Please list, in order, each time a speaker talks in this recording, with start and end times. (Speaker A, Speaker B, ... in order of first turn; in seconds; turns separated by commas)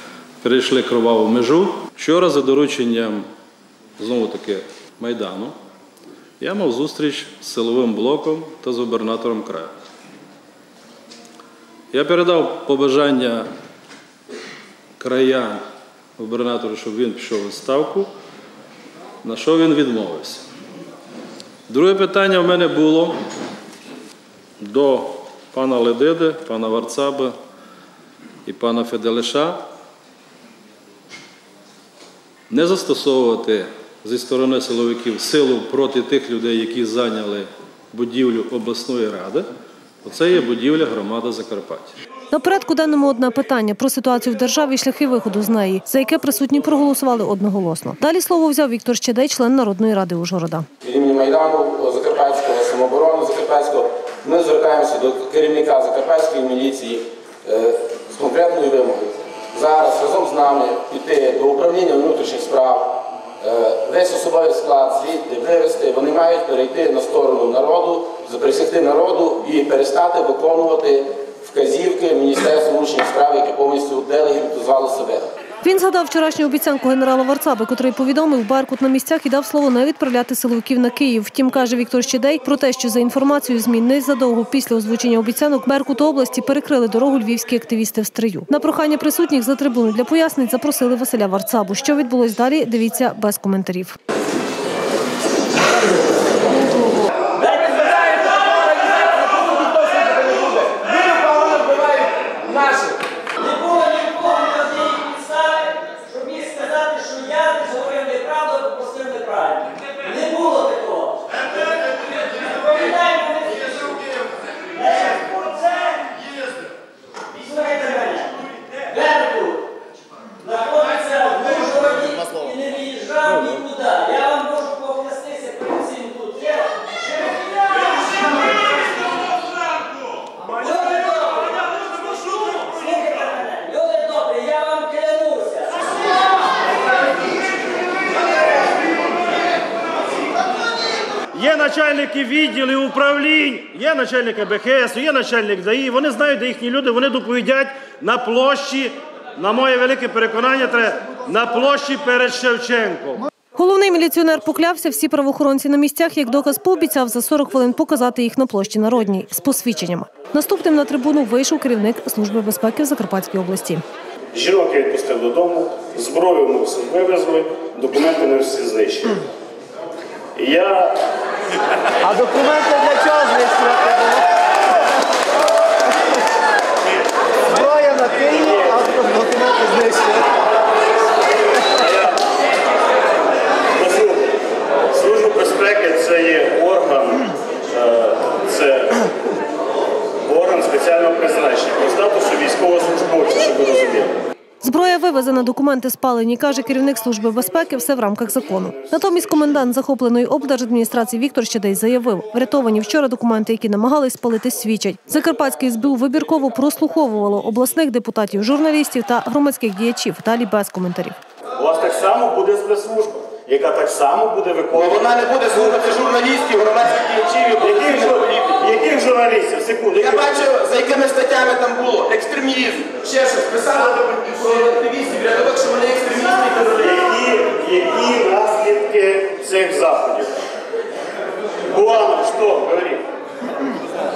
Speaker A: 0.4-3.2, Speaker A: 4.0-5.5, Speaker A: 6.4-9.7, Speaker A: 11.9-13.5, Speaker A: 15.0-15.6, Speaker A: 16.2-18.1, Speaker A: 19.2-20.4, Speaker A: 21.7-23.1, Speaker A: 24.6-27.3, Speaker A: 28.5-29.6, Speaker A: 32.5-39.5, Speaker A: 40.0-41.9, Speaker B: 42.3-50.7, Speaker C: 50.8-75.3, Speaker B: 75.6-94.0, Speaker D: 97.3-100.0, Speaker C: 99.3-103.0, Speaker D: 103.4-116.3, Speaker D: 117.3-119.7, Speaker D: 120.4-129.1, Speaker D: 130.4-136.2, Speaker E: 141.3-153.3, Speaker B: 153.6-163.8, Speaker F: 164.4-169.1, Speaker F: 170.4-170.7, Speaker G: 172.1-173.9, Speaker F: 178.1-178.9, Speaker G: 179.4-179.9, Speaker F: 181.8-182.1, Speaker F: 183.8-184.3, Speaker F: 184.9-187.2, Speaker F: 187.8-189.1, Speaker F: 190.3-194.1, Speaker B: 194.6-211.2, Speaker F: 211.6-215.0, Speaker C: 214.8-218.6, Speaker F: 217.7-220.4, Speaker C: 220.0-226.7, Speaker F: 226.8-230.3, Speaker F: 231.7-233.0